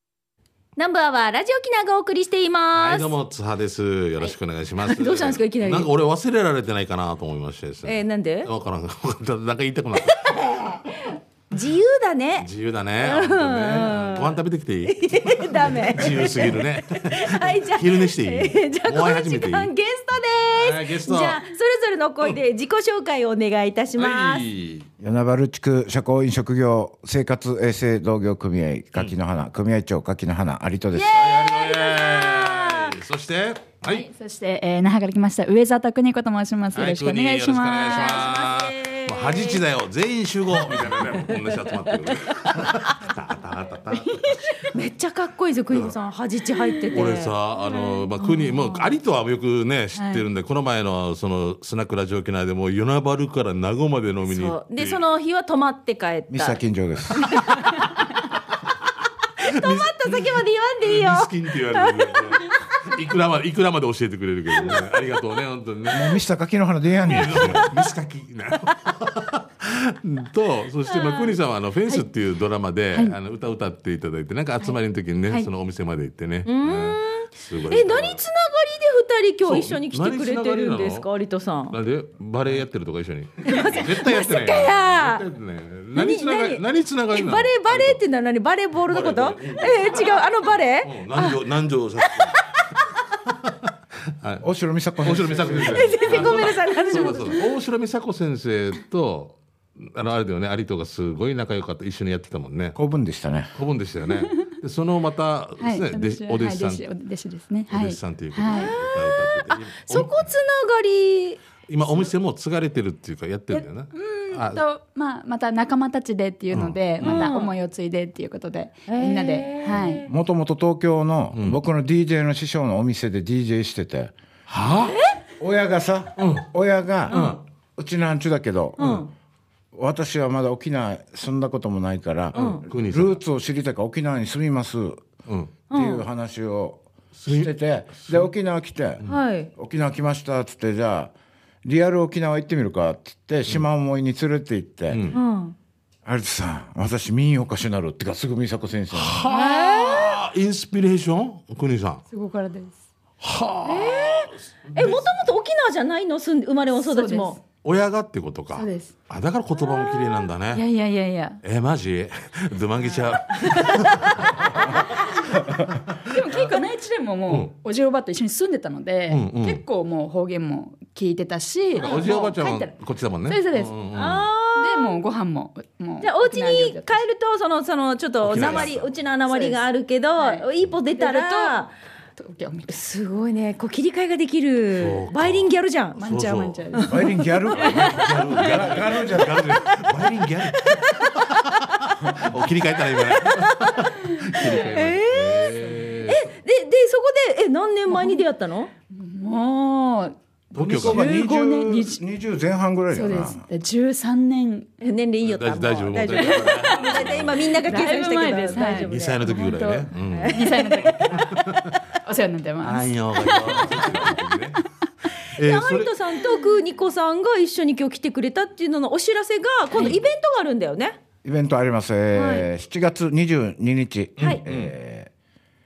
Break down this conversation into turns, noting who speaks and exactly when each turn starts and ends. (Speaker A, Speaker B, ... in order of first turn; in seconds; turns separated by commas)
Speaker A: 0.8-3.1, Speaker B: 2.7-10.3, Speaker A: 4.8-5.9, Speaker A: 7.8-8.5, Speaker A: 10.0-12.5, Speaker B: 12.4-19.7, Speaker A: 13.0-24.4, Speaker B: 20.5-21.4, Speaker B: 24.0-24.9, Speaker C: 25.0-31.1, Speaker A: 30.9-32.9, Speaker B: 31.1-34.1, Speaker D: 33.9-38.2, Speaker B: 36.7-44.3, Speaker A: 37.8-39.6, Speaker A: 40.8-43.0, Speaker A: 44.7-48.9, Speaker B: 46.9-55.0, Speaker D: 49.9-50.2, Speaker A: 54.3-56.6, Speaker C: 56.3-57.2, Speaker A: 59.4-62.6, Speaker B: 59.4-66.2, Speaker C: 65.9-67.7, Speaker B: 67.0-78.2, Speaker A: 70.9-71.3, Speaker A: 76.5-81.8, Speaker B: 79.4-81.0, Speaker B: 81.7-88.0, Speaker A: 83.4-85.2, Speaker A: 85.9-91.4, Speaker B: 88.9-92.6, Speaker A: 92.1-92.6, Speaker B: 93.2-93.5, Speaker B: 94.2-94.5, Speaker C: 94.4-96.2, Speaker B: 95.0-102.8, Speaker A: 95.7-97.4, Speaker D: 96.1-97.3, Speaker C: 102.7-103.5, Speaker B: 103.5-106.9, Speaker D: 105.6-108.7, Speaker B: 107.7-110.2, Speaker A: 108.5-111.4, Speaker B: 111.7-114.6, Speaker D: 113.5-120.0, Speaker B: 116.5-117.3, Speaker A: 117.0-117.5, Speaker A: 118.9-120.1, Speaker C: 120.0-124.1, Speaker B: 121.3-121.6, Speaker B: 124.5-125.0, Speaker A: 124.8-125.2, Speaker C: 125.4-127.2, Speaker B: 126.2-126.5, Speaker B: 127.1-127.4, Speaker A: 127.1-127.4, Speaker C: 127.8-128.8, Speaker B: 128.8-129.1, Speaker A: 128.8-129.1, Speaker C: 129.7-135.1, Speaker A: 132.3-132.6, Speaker B: 132.3-133.2, Speaker B: 135.3-135.5, Speaker A: 135.7-136.1, Speaker C: 135.7-139.0, Speaker B: 137.2-138.3, Speaker A: 139.1-139.5, Speaker C: 139.6-141.1, Speaker C: 141.6-145.1, Speaker B: 144.9-145.2, Speaker A: 145.1-145.6, Speaker C: 146.0-149.3, Speaker B: 148.9-152.0, Speaker A: 149.3-150.2, Speaker D: 152.1-152.8, Speaker B: 153.2-155.1, Speaker A: 153.6-157.4, Speaker D: 156.8-157.4, Speaker B: 157.6-160.7, Speaker D: 158.5-158.9, Speaker A: 159.6-160.2, Speaker D: 160.5-161.4, Speaker B: 161.4-164.4, Speaker A: 162.9-163.8, Speaker D: 164.1-172.7, Speaker B: 169.1-169.6, Speaker A: 171.8-172.1, Speaker B: 171.8-174.3, Speaker D: 173.2-173.7, Speaker A: 173.9-175.0, Speaker D: 174.5-177.0, Speaker A: 176.0-181.7, Speaker B: 178.2-178.9, Speaker D: 178.3-178.7, Speaker D: 179.2-179.6, Speaker D: 180.2-181.6, Speaker D: 182.2-182.8, Speaker A: 182.7-187.7, Speaker B: 184.8-186.6, Speaker D: 186.0-189.0, Speaker C: 186.9-189.5, Speaker B: 187.8-196.2, Speaker A: 190.5-191.3, Speaker A: 192.9-193.8, Speaker D: 194.3-194.8, Speaker A: 194.7-198.7, Speaker D: 195.5-196.0, Speaker D: 197.9-198.2, Speaker D: 198.9-202.0, Speaker B: 200.5-201.1, Speaker C: 200.7-203.4, Speaker D: 202.9-204.7, Speaker A: 204.8-209.2, Speaker B: 205.2-207.5, Speaker D: 206.1-214.2, Speaker B: 208.7-211.7, Speaker A: 210.1-211.2, Speaker B: 212.6-214.6, Speaker B: 215.2-215.9, Speaker A: 215.4-221.0, Speaker C: 221.2-225.1, Speaker A: 222.1-222.5, Speaker B: 224.2-224.7